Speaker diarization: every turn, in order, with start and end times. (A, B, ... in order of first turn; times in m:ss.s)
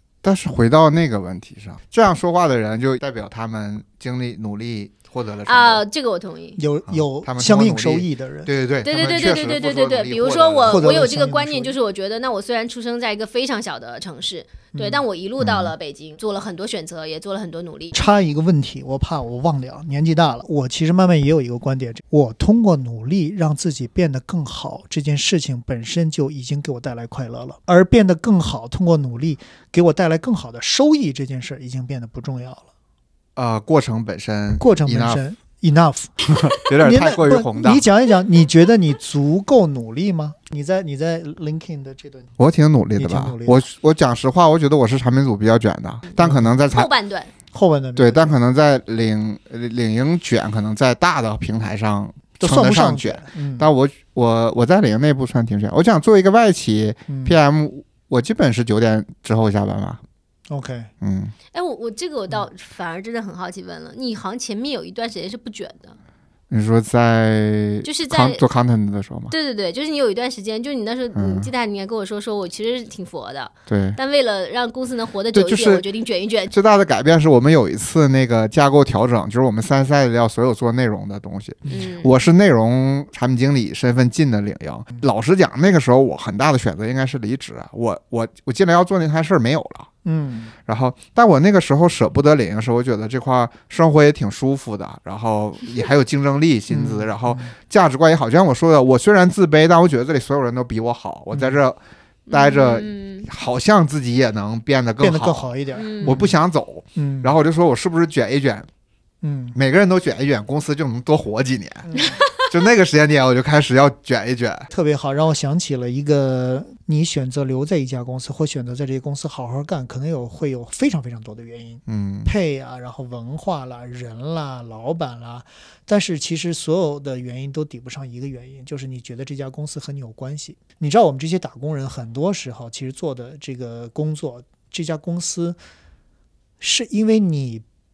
0:00.2-0:05.8 A
0:05.4-0:06.6 B
0:06.6-0:08.5 C
0:06.9-0:10.9 A
0:08.8-0:18.0 B
0:10.6-0:11.8 C
0:14.7-0:15.0 C
0:15.4-0:15.7 A
0:17.9-0:32.7 C
0:33.4-0:35.2 A
0:34.6-0:36.2 C
0:36.3-0:37.8 A
0:36.8-0:42.3 C
0:42.4-0:46.9 A
0:43.0-0:43.6 C
0:46.2-0:46.5 C
0:46.7-0:47.3 B
0:47.5-0:48.4 C
0:48.0-1:00.0 A
0:52.4-0:53.7 C
0:57.1-0:57.4 C
1:00.5-1:00.9 C
1:01.0-1:01.3 A
1:01.5-1:06.0 B
1:06.5-1:09.3 A
1:07.8-1:08.4 B
1:09.3-1:16.5 B
1:11.1-1:11.5 A
1:13.7-1:14.0 A
1:15.3-1:15.8 A
1:16.5-1:29.9 A
1:21.7-1:22.2 B
1:30.0-1:30.5 C
1:30.6-1:48.7 A
1:36.7-1:37.5 C
1:41.3-1:41.6 C
1:42.3-1:43.3 B
1:45.0-1:46.3 C
1:45.7-1:46.2 B
1:47.0-1:47.3 C
1:49.2-1:49.6 C
1:49.5-1:54.7 A
1:51.8-1:52.2 C
1:52.0-1:52.4 B
1:54.7-2:15.6 C
2:01.9-2:02.3 A
2:16.6-2:17.6 C